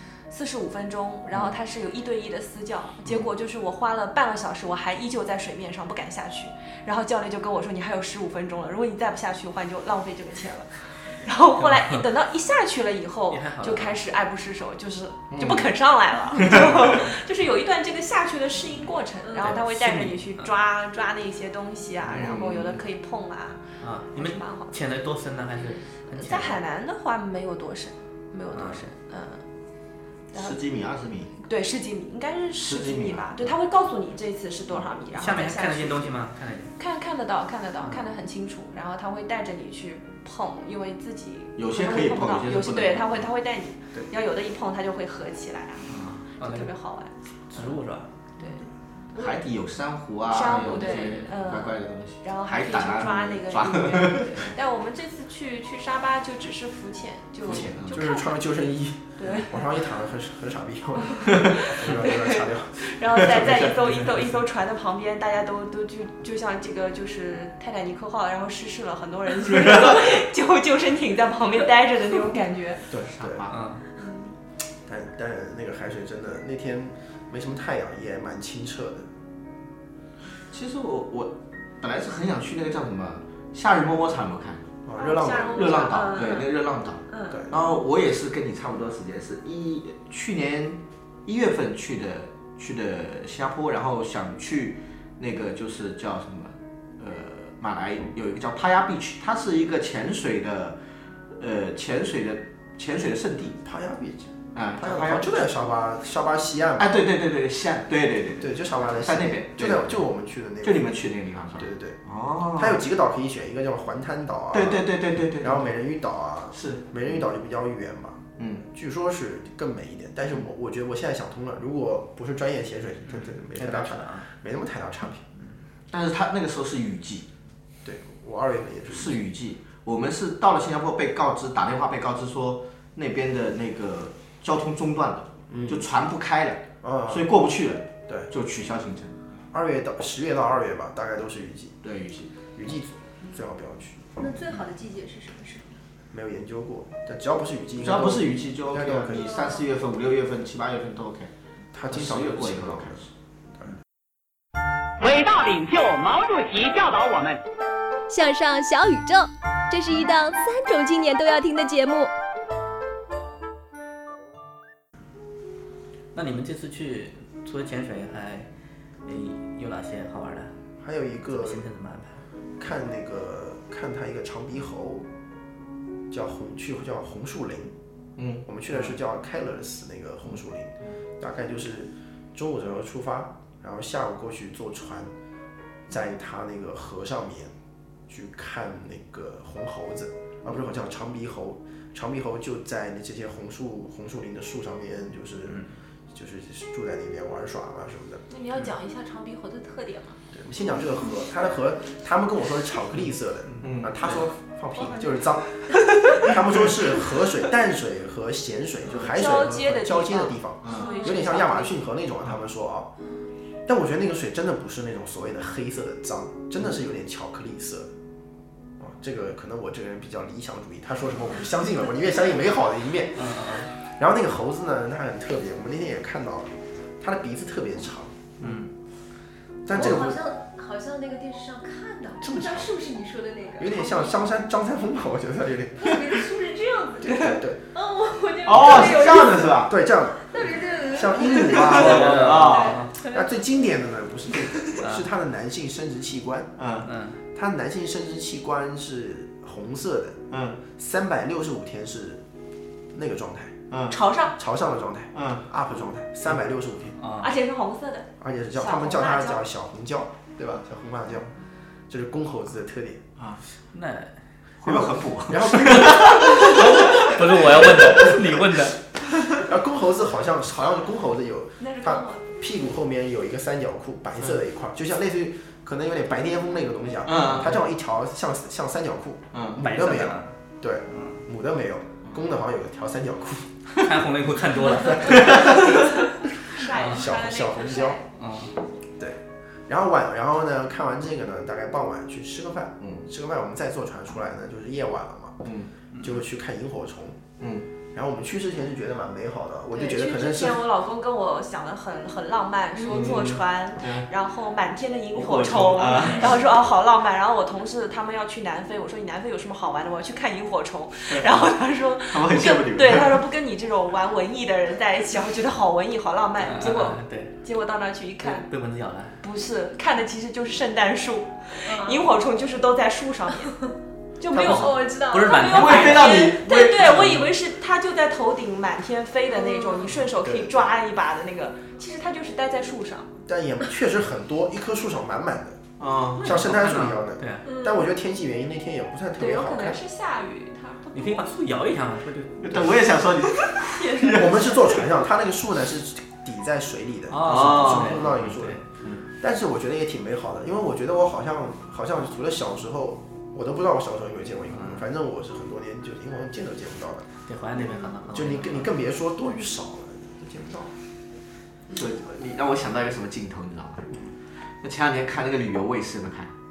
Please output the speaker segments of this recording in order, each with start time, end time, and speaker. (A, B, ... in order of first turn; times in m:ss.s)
0:00.3-0:23.6 A
0:11.6-0:12.0 B
0:13.3-0:14.0 B
0:15.3-0:15.7 C
0:16.4-0:17.0 C
0:19.2-0:19.6 D
0:19.4-0:20.5 B
0:22.1-0:22.8 C
0:23.8-0:26.6 B
0:24.1-0:24.8 A
0:26.1-0:29.4 A
0:28.5-0:28.8 B
0:30.3-0:31.3 C
0:31.5-0:36.2 A
0:32.6-0:33.4 C
0:35.2-0:36.7 B
0:36.8-0:47.1 A
0:41.6-0:43.2 C
0:46.4-0:46.7 B
0:47.5-0:48.1 B
0:49.2-0:54.4 C
0:50.3-0:58.3 A
0:57.4-0:58.0 C
0:57.5-1:02.8 E
0:59.2-0:59.6 A
1:01.2-1:12.9 A
1:01.3-1:01.6 C
1:03.2-1:03.9 C
1:09.5-1:10.0 C
1:12.9-1:13.5 E
1:12.9-1:13.5 C
1:13.5-1:13.8 B
1:14.0-1:14.3 A
1:14.9-1:19.1 E
1:20.5-1:24.6 C
1:24.8-1:25.9 E
1:25.0-1:27.5 A
1:25.5-1:40.8 C
1:27.3-1:27.6 E
1:41.4-1:43.6 C
1:43.6-1:47.0 E
1:44.5-1:45.4 C
1:46.8-1:50.0 C
1:48.4-1:50.9 E
1:50.6-1:52.8 C
1:51.6-1:52.0 E
1:52.6-1:54.8 E
1:54.5-1:55.7 C
1:55.4-2:05.2 E
1:56.5-1:56.8 C
1:58.4-1:58.7 C
2:03.2-2:04.3 B
2:05.9-2:07.3 C
2:07.8-2:09.2 E
2:08.9-2:19.1 C
2:15.5-2:15.9 E
2:16.8-2:17.3 E
2:19.5-2:21.8 E
2:21.8-2:22.3 C
2:22.5-2:24.1 E
2:24.2-2:25.8 D
2:26.1-2:29.4 E
2:27.8-2:31.3 C
2:29.1-2:29.6 D
2:31.7-2:33.0 E
2:31.9-2:33.1 C
2:35.0-2:37.4 F
2:38.1-2:42.1 G
2:46.1-2:48.5 B
2:49.0-2:50.5 B
2:50.8-2:51.6 E
2:51.3-2:52.2 B
2:52.6-2:55.1 E
2:56.1-2:57.7 E
2:58.2-2:58.4 C
2:58.4-3:05.1 E
3:05.9-3:07.5 E
3:08.1-3:18.3 E
3:18.3-3:20.2 A
3:20.3-3:32.9 E
3:23.6-3:24.0 C
3:24.8-3:25.1 D
3:29.0-3:31.7 A
3:30.8-3:31.2 D
3:33.7-3:37.9 E
3:38.8-3:48.5 E
3:43.2-3:43.7 B
3:48.4-3:48.7 B
3:49.7-3:50.2 E
3:49.7-3:54.2 D
3:52.2-3:52.7 E
3:53.6-3:56.0 E
3:55.8-3:59.7 D
3:57.0-3:57.6 E
3:58.4-3:59.8 C
3:59.0-4:00.3 E
4:00.2-4:03.4 D
4:00.9-4:02.4 E
4:01.2-4:02.8 C
4:01.7-4:02.9 B
4:03.0-4:06.6 E
4:04.8-4:05.1 B
4:06.6-4:06.9 C
4:06.8-4:07.2 B
4:07.3-4:12.2 E
4:10.3-4:10.6 C
4:12.9-4:13.6 E
4:13.7-4:14.0 C
4:13.9-4:14.4 A
4:14.4-4:17.0 E
4:15.1-4:15.4 C
4:17.0-4:17.3 B
4:17.2-4:19.4 A
4:18.2-4:21.3 E
4:21.9-4:23.0 E
4:23.6-4:24.2 B
4:24.6-4:26.3 C
4:24.6-4:27.0 E
4:26.2-4:28.8 B
4:29.4-4:43.5 E
4:31.6-4:32.3 A
4:37.0-4:37.5 C
4:39.3-4:39.6 C
4:39.6-4:40.3 B
4:43.8-4:45.4 B
4:44.9-4:45.4 E
4:45.1-4:45.4 C
4:45.7-4:48.1 A
4:46.6-4:48.0 E
4:48.2-4:48.5 B
4:49.0-4:55.5 E
4:52.8-4:53.1 C
4:55.4-4:55.7 C
4:56.0-4:57.2 E
4:57.4-4:57.7 C
4:57.9-5:00.7 E
4:59.7-5:18.5 A
5:02.8-5:03.1 D
5:02.9-5:04.1 C
5:05.1-5:06.5 C
5:11.1-5:11.5 C
5:12.1-5:13.2 C
5:16.4-5:17.3 B
5:18.2-5:19.2 B
5:19.2-5:23.7 A
5:21.6-5:22.1 D
5:24.2-5:33.1 A
5:24.3-5:26.2 B
5:24.4-5:25.9 D
5:25.5-5:27.3 C
5:29.3-5:29.9 D
5:30.2-5:30.5 E
5:33.3-5:35.6 E
5:35.8-5:36.4 C
5:36.2-5:37.4 B
5:36.2-5:39.8 E
5:37.4-5:37.9 D
5:39.2-5:41.3 A
5:40.9-5:42.7 B
5:42.4-5:44.7 C
5:43.8-5:44.1 A
5:44.0-5:48.6 E
5:47.1-5:48.6 B
5:47.2-5:48.1 C
5:49.2-5:57.1 E
5:54.5-5:54.8 B
5:57.3-5:58.7 B
5:58.1-6:00.7 E
6:01.7-6:03.9 C
6:04.6-6:06.3 C